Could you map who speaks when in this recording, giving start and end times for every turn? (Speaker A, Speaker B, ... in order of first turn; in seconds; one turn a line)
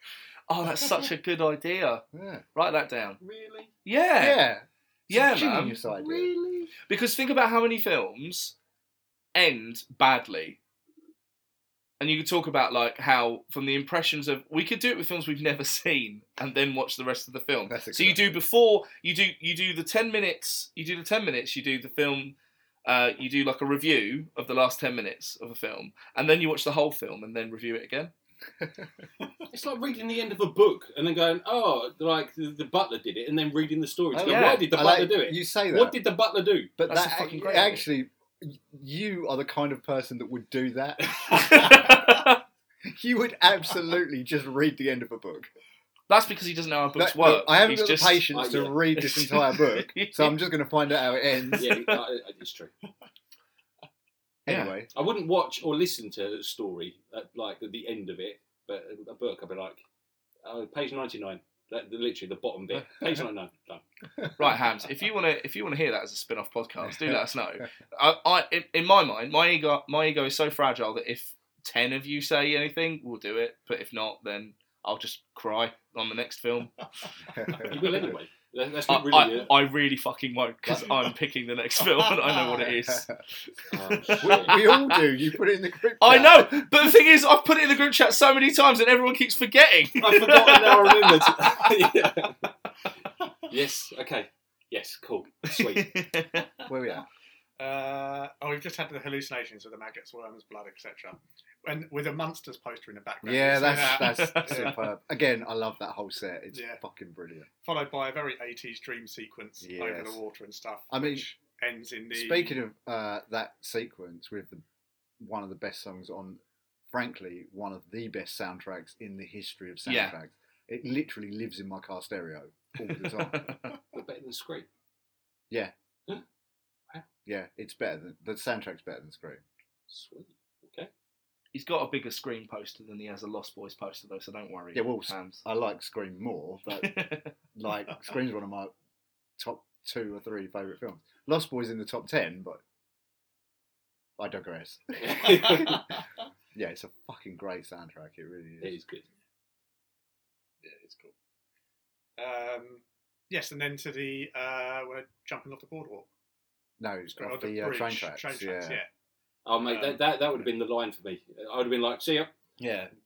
Speaker A: 0.5-3.2
Speaker B: 2.1-2.4
Speaker C: 3.2-3.7
Speaker A: 3.8-4.4
Speaker B: 4.2-6.3
Speaker A: 5.1-8.6
Speaker A: 9.3-10.6
Speaker A: 12.0-28.1
Speaker B: 17.7-18.4
Speaker C: 29.5-36.7
Speaker B: 34.1-36.0
Speaker A: 34.3-34.7
Speaker B: 36.8-42.1
Speaker A: 36.9-37.8
Speaker A: 41.3-42.4
Speaker B: 42.8-45.5
Speaker A: 46.1-48.3
Speaker B: 47.0-51.7
Speaker C: 48.3-48.9
Speaker A: 49.0-50.4
Speaker A: 51.4-52.0
Speaker C: 51.5-52.7
Speaker B: 54.5-54.9
Speaker A: 54.5-54.8
Speaker C: 54.9-59.8
Speaker C: 60.4-63.8
Speaker A: 64.4-77.1
Speaker B: 66.8-67.2
Speaker B: 77.3-78.1
Speaker C: 77.6-79.5
Speaker A: 78.9-85.0
Speaker B: 80.6-81.0
Speaker B: 82.5-83.2
Speaker C: 83.7-84.7
Speaker B: 84.2-86.7
Speaker A: 86.0-91.9
Speaker C: 90.0-92.5
Speaker C: 93.4-96.0
Speaker A: 95.5-96.5
Speaker B: 96.7-97.1
Speaker D: 97.6-104.8
Speaker B: 103.2-107.5
Speaker A: 103.8-104.8
Speaker D: 106.5-106.8
Speaker D: 107.6-112.6
Speaker B: 109.6-110.2
Speaker B: 110.9-111.3
Speaker B: 112.1-114.6
Speaker B: 115.2-116.4
Speaker B: 116.9-123.5
Speaker A: 119.9-120.1
Speaker A: 123.2-123.8
Speaker C: 123.9-124.7
Speaker B: 127.2-129.4
Speaker C: 129.9-130.9
Speaker A: 131.5-135.4
Speaker B: 134.7-138.7
Speaker A: 136.8-137.3
Speaker B: 139.4-142.6
Speaker B: 144.2-145.9
Speaker C: 145.0-145.9
Speaker B: 146.5-148.8
Speaker C: 148.6-149.1
Speaker D: 150.6-151.1
Speaker D: 152.2-156.1
Speaker B: 156.8-158.8
Speaker D: 157.1-158.9
Speaker C: 159.4-162.3
Speaker D: 159.7-160.0
Speaker B: 162.6-162.9